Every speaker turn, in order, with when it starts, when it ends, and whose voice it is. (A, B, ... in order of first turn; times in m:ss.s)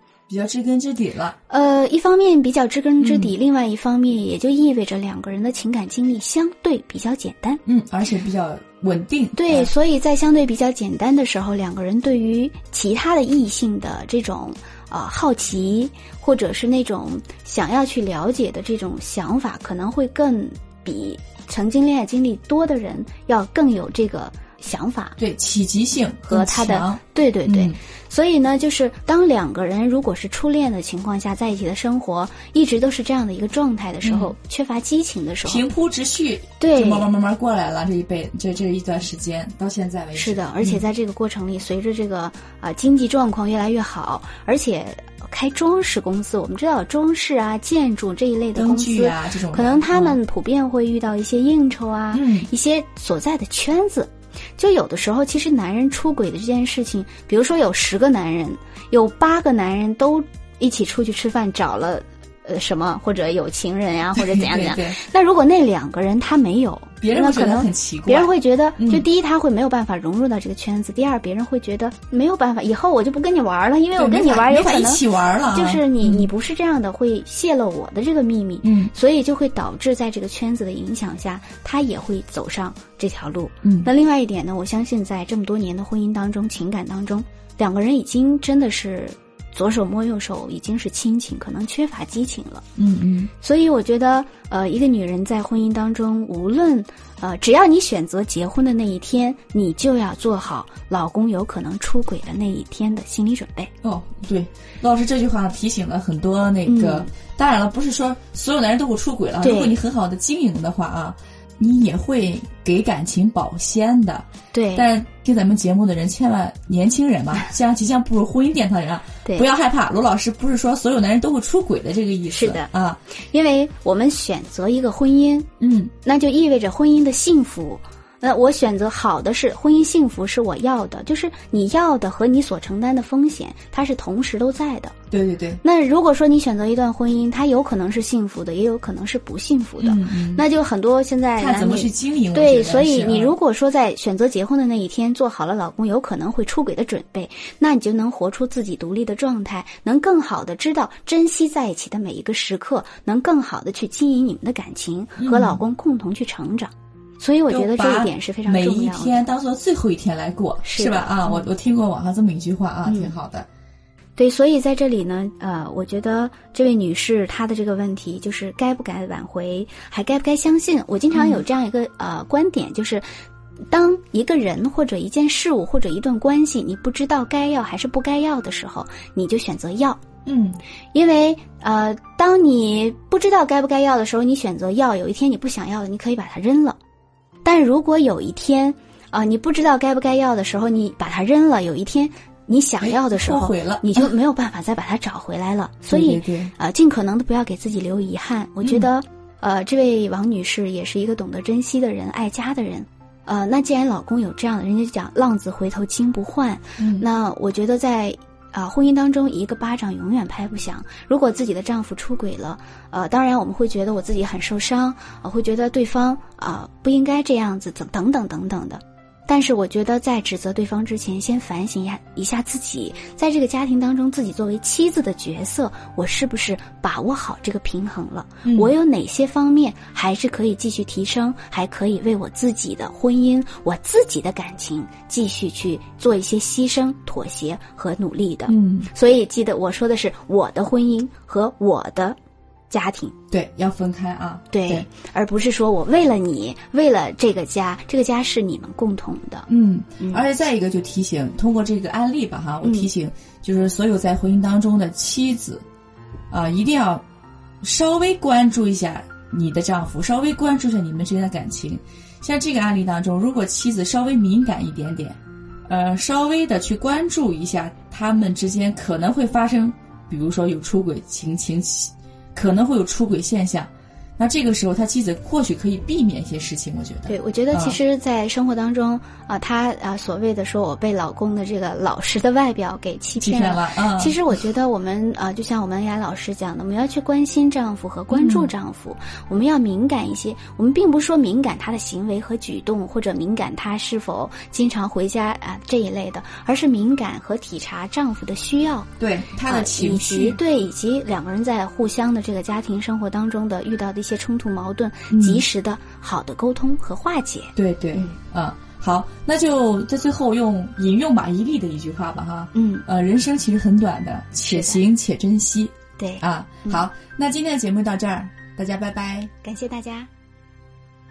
0:00.3-0:01.4 A
0:01.5-0:07.6 B
0:03.0-0:03.3 A
0:07.6-0:09.7 A
0:09.4-0:25.2 B
0:25.2-0:27.8 A
0:26.2-0:35.7 B
0:34.0-0:34.3 A
0:35.4-0:40.8 A
0:36.6-0:37.1 B
0:40.1-1:32.7 B
0:48.6-0:50.2 A
0:52.1-0:52.5 A
1:04.2-1:05.0 A
1:07.0-1:09.0 A
1:14.0-1:16.3 A
1:18.6-1:18.9 A
1:23.6-1:23.9 A
1:32.8-1:33.3 A
1:33.4-1:43.7 B
1:43.8-2:03.0 A
1:46.6-1:47.1 B
1:49.4-1:49.8 B
1:54.5-1:54.9 B
2:02.3-2:05.5 B
2:05.6-2:05.9 A
2:06.0-2:15.0 B
2:15.1-2:15.6 A
2:15.6-2:39.3 B
2:19.8-2:20.4 A
2:21.4-2:23.3 A
2:35.2-2:35.6 A
2:37.5-2:43.5 A
2:40.6-2:41.5 B
2:42.8-2:43.1 B
2:44.2-2:53.1 B
2:51.1-2:51.4 A
2:53.7-3:00.0 B
3:00.3-3:00.6 A
3:00.9-3:06.8 B
3:07.4-4:02.2 B
3:12.8-3:14.1 A
3:15.9-3:16.5 A
3:18.6-3:18.9 A
3:26.8-3:27.1 A
3:48.4-3:48.7 A
3:58.5-3:58.9 A
4:02.7-4:03.2 B
4:03.3-4:04.9 A
4:04.5-4:09.5 B
4:09.5-4:15.6 A
4:12.6-4:12.9 B
4:16.3-4:17.0 A
4:17.6-4:37.8 A
4:37.1-4:58.9 B
4:43.2-4:44.2 A
4:48.1-4:48.5 A
4:59.0-5:00.4 A
4:59.5-5:08.2 B
5:05.1-5:05.4 A
5:07.6-5:19.3 A
5:12.5-5:12.9 B
5:14.5-5:14.8 B
5:16.0-5:16.9 B
5:19.4-5:20.1 B